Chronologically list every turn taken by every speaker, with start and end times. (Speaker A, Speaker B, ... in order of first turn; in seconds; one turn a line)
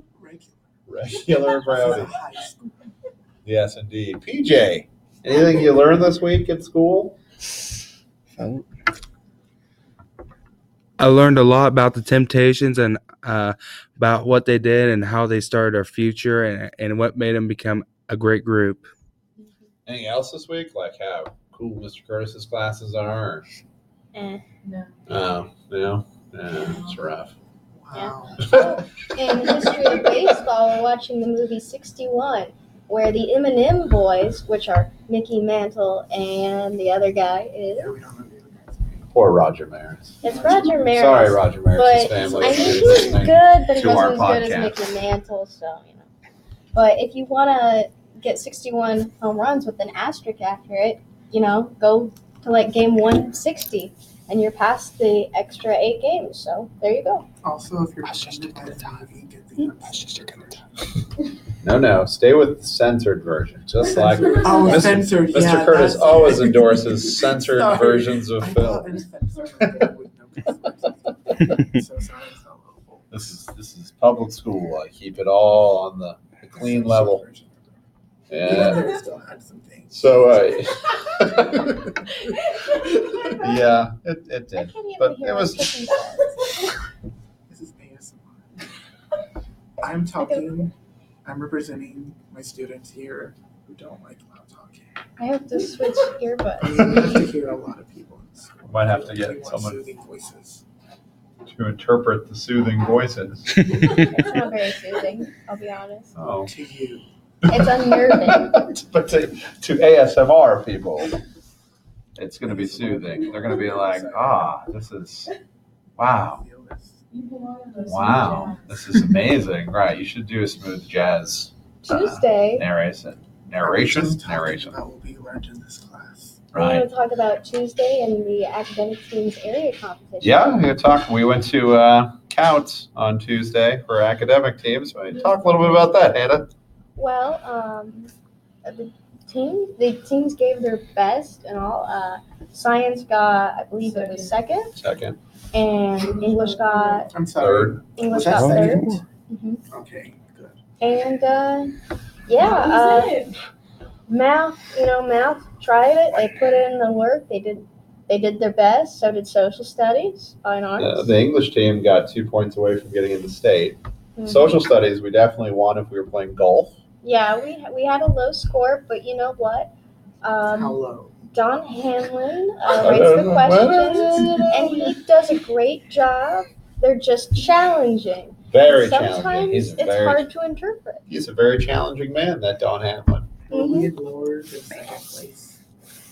Speaker A: 0.2-0.7
Speaker B: 0.9-2.2
Speaker A: 1.5-2.7
Speaker B: 3.5-7.2
Speaker C: 8.4-8.7
Speaker C: 11.0-18.9
Speaker B: 19.9-23.5
Speaker D: 24.1-24.4
Speaker E: 24.6-24.9
Speaker B: 25.1-27.3
Speaker E: 26.7-27.0
Speaker A: 27.8-28.7
Speaker D: 27.9-38.0
Speaker B: 28.4-28.8
Speaker A: 37.8-39.1
Speaker B: 39.1-40.2
Speaker D: 40.2-46.1
Speaker A: 40.2-40.9
Speaker B: 40.8-44.8
Speaker A: 42.1-43.3
Speaker D: 46.7-57.3
Speaker A: 57.4-60.9
Speaker C: 58.1-59.0
Speaker C: 59.9-60.4
Speaker B: 61.6-69.0
Speaker A: 63.8-73.3
Speaker E: 64.5-64.8
Speaker B: 73.1-77.2
Speaker A: 76.4-77.8
Speaker B: 78.3-78.9
Speaker A: 78.4-80.6
Speaker B: 79.9-82.0
Speaker B: 83.1-85.8
Speaker D: 84.5-86.4
Speaker A: 87.5-88.7
Speaker A: 89.8-90.7
Speaker D: 90.2-90.5
Speaker A: 91.2-95.0
Speaker D: 95.2-97.3
Speaker A: 96.6-100.7
Speaker B: 98.7-99.8
Speaker B: 101.5-103.9
Speaker D: 104.1-106.1
Speaker B: 106.2-106.5
Speaker A: 106.5-107.1
Speaker B: 107.5-111.2
Speaker D: 107.5-108.7
Speaker B: 112.2-115.3
Speaker A: 112.4-114.5
Speaker B: 116.0-116.4
Speaker A: 116.0-117.0
Speaker E: 117.1-118.7
Speaker B: 117.8-124.8
Speaker D: 121.8-122.7
Speaker A: 123.6-126.5
Speaker B: 126.5-126.9
Speaker D: 126.5-130.6
Speaker B: 130.2-136.5
Speaker D: 137.0-138.1
Speaker D: 138.6-144.8
Speaker E: 143.8-144.3
Speaker B: 144.8-145.2
Speaker D: 145.5-147.1
Speaker E: 146.0-147.1
Speaker A: 147.1-149.1
Speaker B: 147.4-147.8
Speaker D: 148.0-149.6
Speaker C: 148.3-149.0
Speaker A: 149.7-150.6
Speaker D: 150.8-153.3
Speaker E: 152.4-153.3
Speaker D: 154.1-161.1
Speaker B: 160.8-166.8
Speaker D: 164.2-164.5
Speaker D: 167.0-170.8
Speaker A: 170.5-171.2
Speaker D: 171.3-181.0
Speaker B: 172.7-174.9
Speaker B: 178.5-180.3
Speaker B: 181.1-183.3
Speaker A: 183.5-185.6
Speaker D: 183.5-183.9